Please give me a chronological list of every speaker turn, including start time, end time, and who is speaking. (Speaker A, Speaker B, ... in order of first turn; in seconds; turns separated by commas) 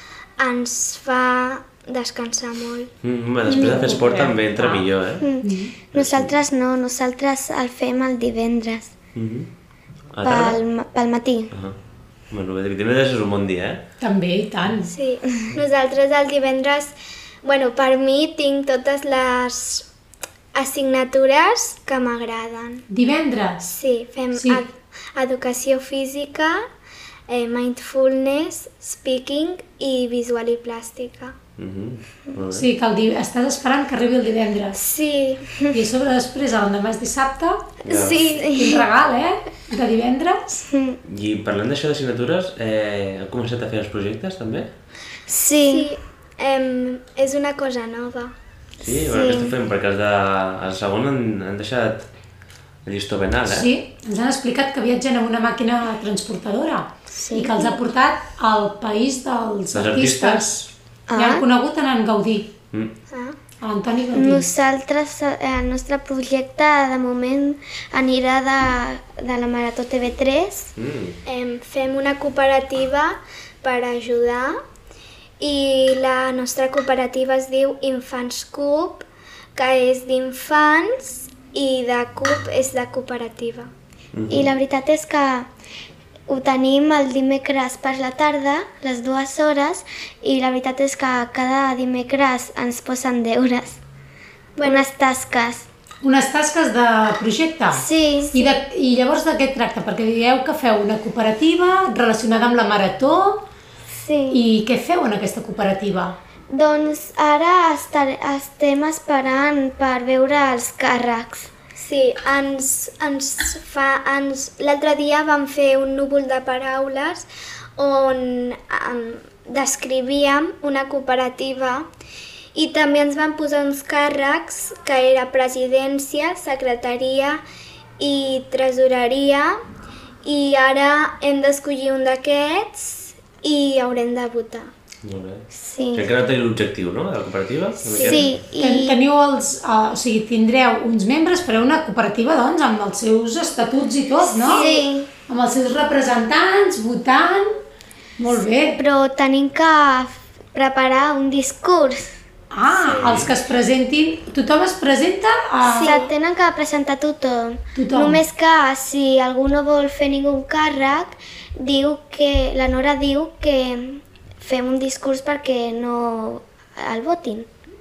Speaker A: 0.4-2.9, Speaker B: 3.0-5.2, Speaker C: 3.5-4.0, Speaker D: 3.5-4.8, Speaker C: 5.2-8.9, Speaker D: 5.4-5.7, Speaker B: 5.9-6.3, Speaker B: 9.2-9.5, Speaker B: 10.1-10.6, Speaker C: 10.2-11.5, Speaker B: 12.3-13.8, Speaker D: 14.0-14.9, Speaker A: 14.9-19.9, Speaker A: 20.5-22.9, Speaker D: 22.9-23.8, Speaker A: 23.7-26.6, Speaker D: 24.4-24.6, Speaker A: 27.3-31.4, Speaker B: 31.6-32.7, Speaker D: 32.5-34.8, Speaker A: 34.8-35.5, Speaker D: 35.7-37.7, Speaker B: 37.9-38.4, Speaker A: 37.9-38.8, Speaker C: 38.1-38.8, Speaker D: 38.5-40.6, Speaker C: 40.7-41.0, Speaker B: 41.0-44.7, Speaker C: 45.3-45.9, Speaker A: 45.7-48.3, Speaker C: 48.8-49.5, Speaker B: 48.8-52.1, Speaker B: 52.9-53.7, Speaker D: 53.5-62.5, Speaker C: 57.1-57.8, Speaker B: 59.7-60.7, Speaker C: 61.1-61.4, Speaker A: 63.1-63.4, Speaker D: 63.6-64.5, Speaker C: 64.1-70.7, Speaker B: 70.8-71.2, Speaker A: 71.3-74.6, Speaker A: 75.4-83.7, Speaker B: 84.1-84.5, Speaker C: 84.3-85.5, Speaker C: 86.3-93.8, Speaker A: 94.6-94.8, Speaker C: 94.6-95.7, Speaker D: 96.0-103.5, Speaker C: 97.7-98.5, Speaker C: 103.9-104.4, Speaker D: 104.3-106.2, Speaker C: 106.5-111.5, Speaker A: 111.8-117.3, Speaker A: 117.8-121.9, Speaker A: 122.5-127.4, Speaker A: 128.0-129.6, Speaker A: 130.2-134.7, Speaker B: 135.0-138.3, Speaker C: 135.5-136.1, Speaker A: 137.8-138.2, Speaker C: 138.0-139.0, Speaker D: 138.6-144.7, Speaker A: 144.4-144.8, Speaker C: 144.4-145.1, Speaker D: 145.3-147.6, Speaker D: 148.2-148.8, Speaker C: 148.8-152.2, Speaker D: 152.5-156.0, Speaker B: 153.0-153.3, Speaker C: 155.7-167.5, Speaker A: 155.8-156.1, Speaker D: 157.8-158.2